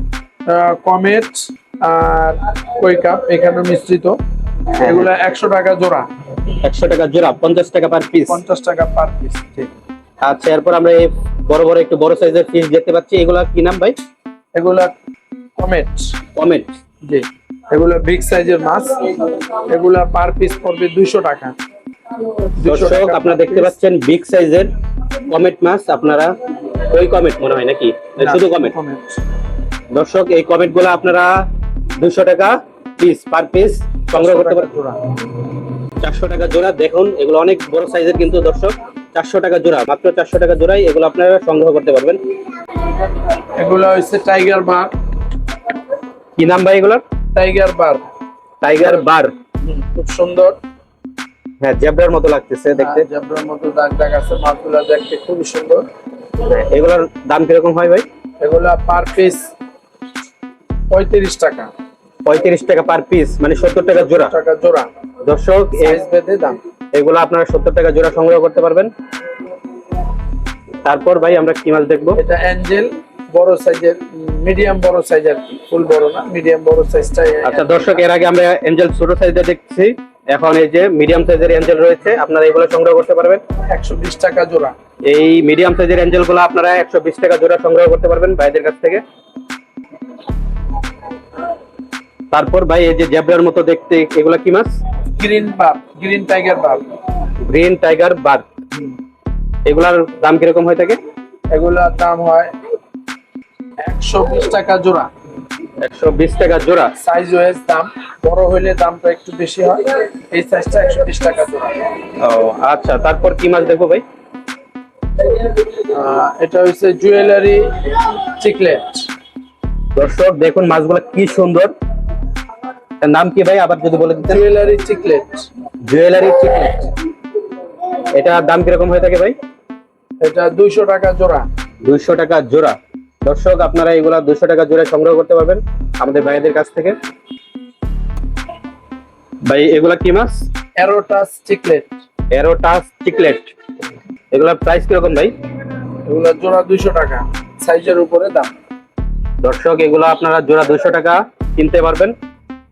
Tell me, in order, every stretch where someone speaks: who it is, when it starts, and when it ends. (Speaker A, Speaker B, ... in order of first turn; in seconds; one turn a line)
Speaker A: 0.5-4.2
Speaker B: 4.8-5.1
Speaker A: 4.8-6.1
Speaker B: 6.6-8.4
Speaker A: 8.3-9.7
Speaker B: 10.2-14.0
Speaker A: 14.6-14.9
Speaker A: 15.6-16.2
Speaker B: 16.4-16.7
Speaker A: 17.1-21.5
Speaker A: 22.6-23.8
Speaker B: 22.6-24.7
Speaker B: 25.3-28.7
Speaker A: 28.2-29.2
Speaker B: 29.9-31.3
Speaker B: 32.0-34.7
Speaker A: 34.1-35.0
Speaker B: 36.0-42.2
Speaker A: 43.6-44.9
Speaker B: 46.4-47.0
Speaker A: 47.4-48.0
Speaker B: 48.6-49.3
Speaker A: 49.6-50.5
Speaker B: 51.6-53.1
Speaker A: 52.8-55.8
Speaker B: 56.5-58.0
Speaker A: 58.4-59.4
Speaker A: 60.9-61.7
Speaker B: 62.3-64.3
Speaker A: 64.0-64.9
Speaker B: 65.2-66.0
Speaker A: 65.8-66.6
Speaker B: 66.9-68.9
Speaker B: 70.8-72.2
Speaker A: 72.2-78.0
Speaker B: 77.4-83.4
Speaker A: 83.7-84.7
Speaker B: 85.1-89.0
Speaker B: 92.3-94.8
Speaker A: 95.2-96.8
Speaker B: 97.4-98.5
Speaker B: 99.7-101.0
Speaker A: 101.5-102.5
Speaker A: 103.8-105.1
Speaker B: 105.8-106.9
Speaker A: 107.0-111.8
Speaker B: 112.2-114.0
Speaker A: 115.9-117.7
Speaker A: 118.4-119.1
Speaker B: 120.0-121.7
Speaker B: 123.0-124.4
Speaker A: 124.3-125.5
Speaker B: 125.9-126.9
Speaker B: 128.1-129.3
Speaker A: 130.2-131.4
Speaker B: 131.8-136.9
Speaker B: 139.5-140.4
Speaker A: 140.8-141.9
Speaker B: 142.3-143.5
Speaker B: 144.3-145.3
Speaker A: 146.1-148.5
Speaker B: 149.4-152.1